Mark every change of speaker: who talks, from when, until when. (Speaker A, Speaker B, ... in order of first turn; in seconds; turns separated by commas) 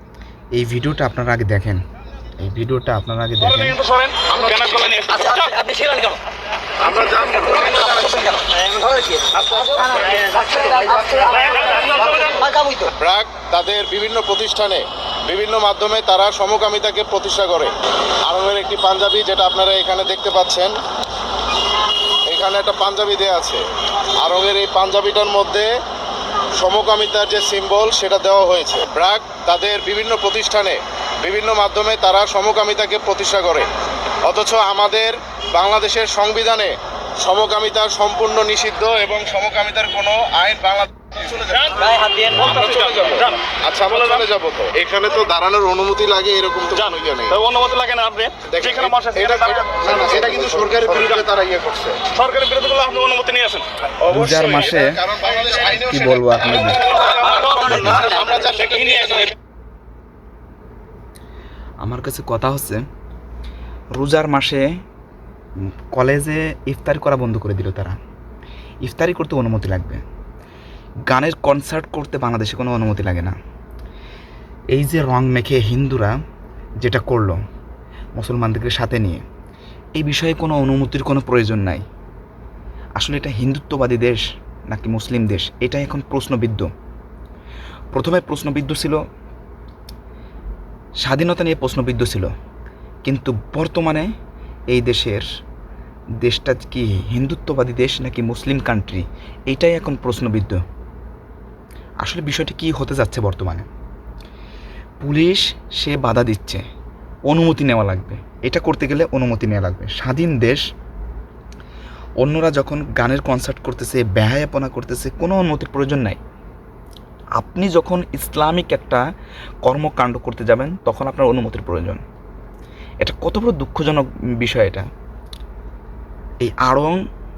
Speaker A: 0.6-1.8, Speaker A: 2.4-3.8, Speaker B: 3.5-5.6, Speaker C: 4.3-4.7, Speaker D: 5.2-6.2, Speaker C: 6.8-7.9, Speaker D: 7.5-11.6, Speaker D: 12.3-12.9, Speaker C: 13.0-17.7, Speaker C: 18.2-20.7, Speaker C: 22.3-23.6, Speaker C: 24.2-25.7, Speaker C: 26.6-33.7, Speaker C: 34.2-41.7, Speaker B: 41.6-43.4, Speaker D: 41.8-42.4, Speaker C: 42.4-47.4, Speaker B: 47.3-49.7, Speaker C: 48.5-52.0, Speaker B: 52.1-53.7, Speaker A: 54.1-55.1, Speaker C: 54.1-56.0, Speaker A: 55.6-56.9, Speaker C: 57.1-59.3, Speaker B: 57.2-57.6, Speaker A: 57.6-58.1, Speaker D: 58.1-58.4, Speaker B: 58.6-59.3, Speaker A: 61.8-62.8, Speaker A: 64.0-64.7, Speaker A: 65.9-68.0, Speaker A: 68.8-70.0, Speaker A: 71.1-73.3, Speaker A: 74.7-76.1, Speaker A: 76.8-77.4, Speaker A: 78.2-79.2, Speaker A: 80.0-81.8, Speaker A: 83.0-86.7, Speaker A: 87.9-89.0, Speaker A: 91.0-92.3, Speaker A: 93.0-94.1, Speaker A: 94.7-95.3, Speaker A: 96.2-100.6, Speaker A: 102.0-103.7, Speaker A: 105.0-106.6, Speaker A: 107.3-110.6, Speaker A: 112.2-116.2, Speaker A: 117.4-119.0, Speaker A: 119.7-122.0, Speaker A: 123.0-124.8, Speaker A: 126.4-127.0